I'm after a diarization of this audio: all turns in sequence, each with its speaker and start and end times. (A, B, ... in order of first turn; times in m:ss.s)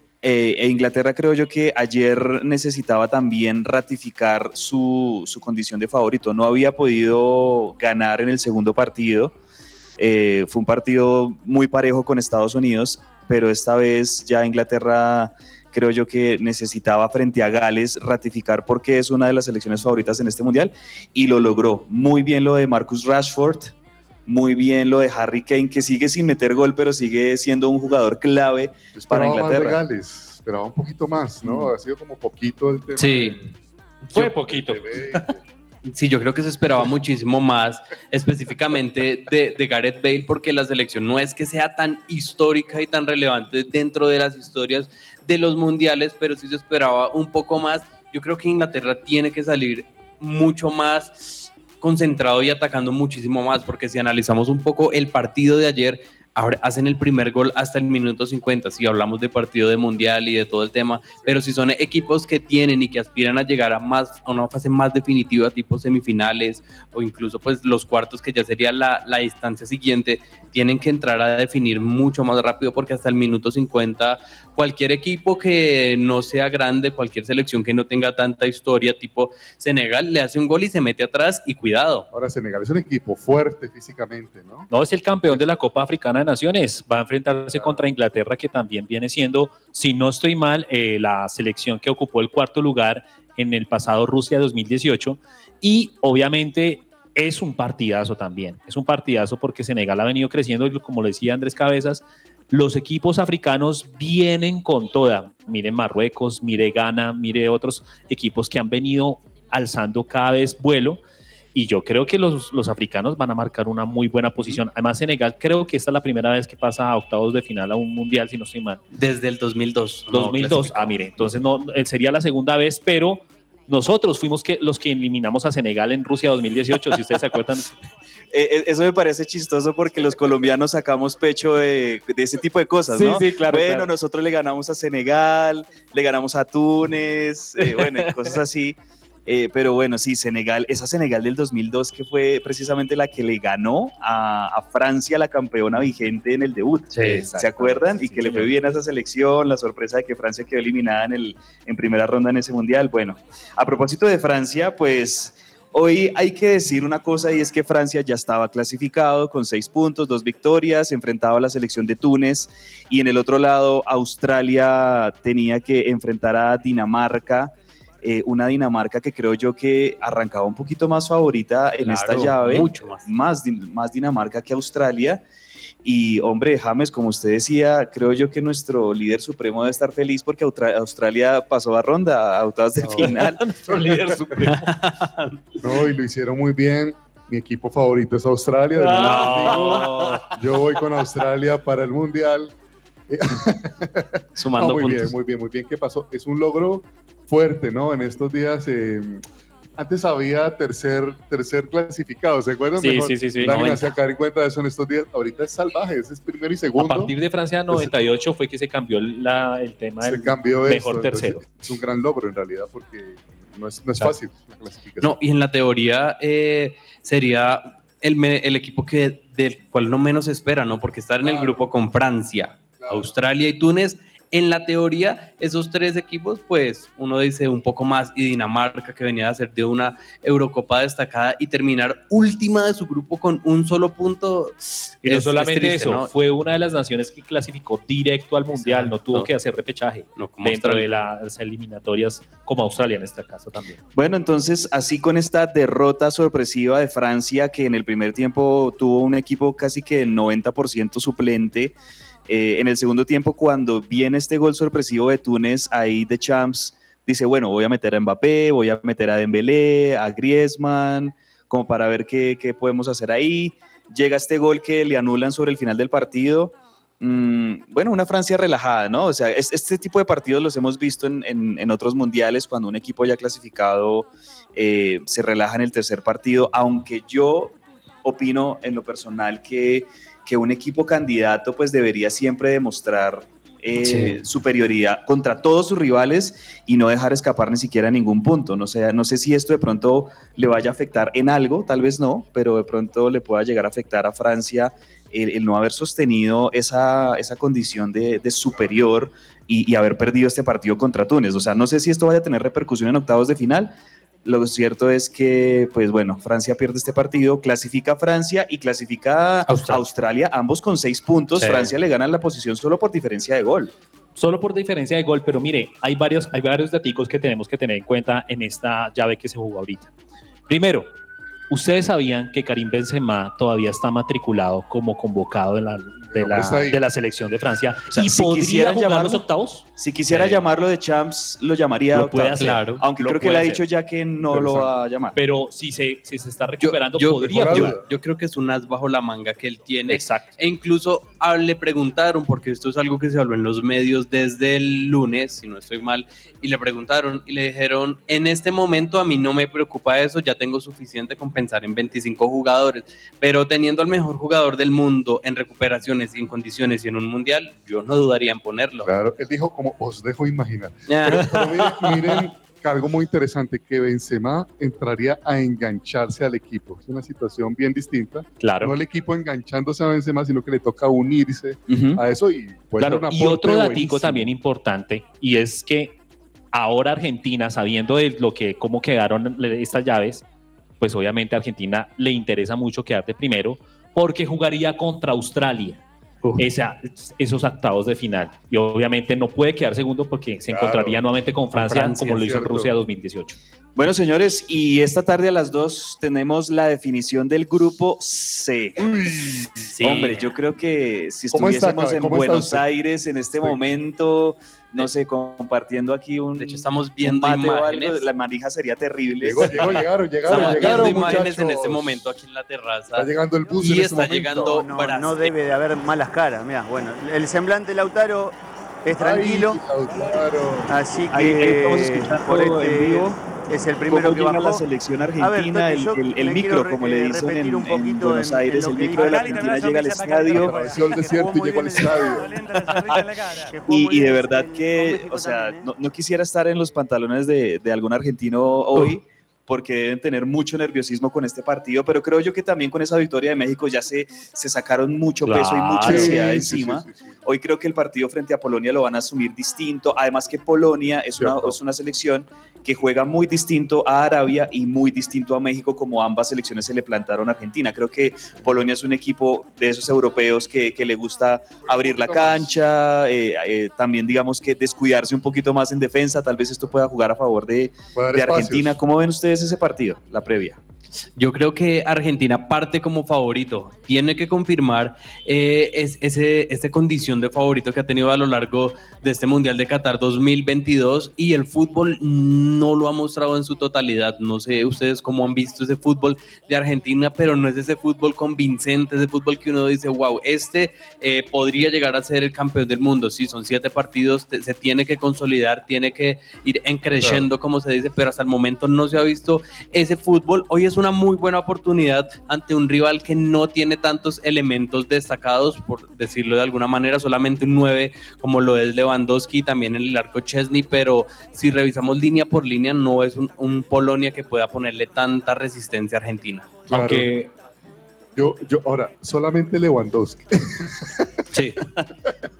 0:00.2-0:09.3 A
0:10.0-0:23.7 A
0:24.3-0:29.8 A
0:29.0-0:33.5 B
0:33.0-0:33.4 C
0:34.1-0:35.0 D
0:34.1-0:35.4 B
0:35.8-1:22.1 C
1:22.1-1:24.7 B
1:24.7-1:51.0 D
1:27.5-1:27.8 B
1:51.5-1:58.8 D
1:58.9-2:00.9 C
2:00.1-2:07.8 D
2:08.3-2:55.2 A
2:12.9-2:13.9 D
2:17.8-2:18.1 C
2:27.0-2:27.3 C
2:27.0-2:28.5 D
2:51.8-2:53.1 C
2:55.8-3:03.4 A
3:02.8-3:03.1 B
3:03.0-3:04.7 D
3:03.6-3:05.4 C
3:05.6-3:12.5 B
3:08.9-3:10.2 D
3:08.9-3:10.2 C
3:13.1-3:19.2 B
3:14.4-3:15.1 C
3:19.8-3:27.1 B
3:22.8-3:23.8 D
3:23.3-3:23.9 C
3:26.8-3:31.4 D
3:30.0-3:35.2 B
3:35.0-3:56.1 C
3:41.2-3:41.6 B
3:42.8-3:43.1 B
3:55.0-4:03.8 D
3:58.6-3:59.3 C
4:00.2-4:00.9 C
4:04.0-4:11.8 A
4:12.3-5:13.7 A
4:43.8-4:44.2 C
5:09.5-5:09.8 D
5:14.2-5:19.9 D
5:20.5-5:20.9 D
5:21.5-5:30.3 D
5:26.1-5:26.8 B
5:27.9-5:29.2 A
5:29.8-5:35.2 A
5:31.9-5:33.6 D
5:32.4-5:32.8 C
5:34.3-5:34.7 B
5:35.2-5:37.8 D
5:36.6-5:58.9 C
5:37.3-5:37.8 B
5:39.9-5:40.3 D
5:58.8-6:14.3 B
6:00.9-6:01.3 C
6:08.4-6:08.8 D
6:11.7-6:12.0 A
6:12.8-6:16.0 D
6:16.5-6:20.2 D
6:20.8-6:25.8 D
6:26.4-6:33.4 D
6:30.5-6:31.0 B
6:31.6-6:32.2 C
6:32.1-6:32.7 B
6:33.8-6:38.9 A
6:38.8-6:39.7 B
6:39.7-6:40.3 C
6:39.8-6:51.0 A
6:41.3-6:42.6 B
6:46.4-6:48.1 C
6:49.2-6:52.0 B
6:50.2-6:55.4 C
6:53.0-6:54.6 B
6:54.6-6:59.6 E
6:59.0-7:00.7 B
7:00.7-7:04.6 E
7:01.1-7:03.2 A
7:03.9-7:10.6 A
7:05.2-7:15.7 E
7:10.4-7:12.4 B
7:13.7-7:50.6 A
7:25.2-7:26.3 D
7:25.8-7:27.2 B
7:31.2-7:31.6 B
7:41.6-7:42.5 B
7:48.0-7:48.8 B
7:51.2-8:36.6 C
8:36.7-8:37.3 D
8:36.7-8:37.1 B
8:38.2-8:41.2 B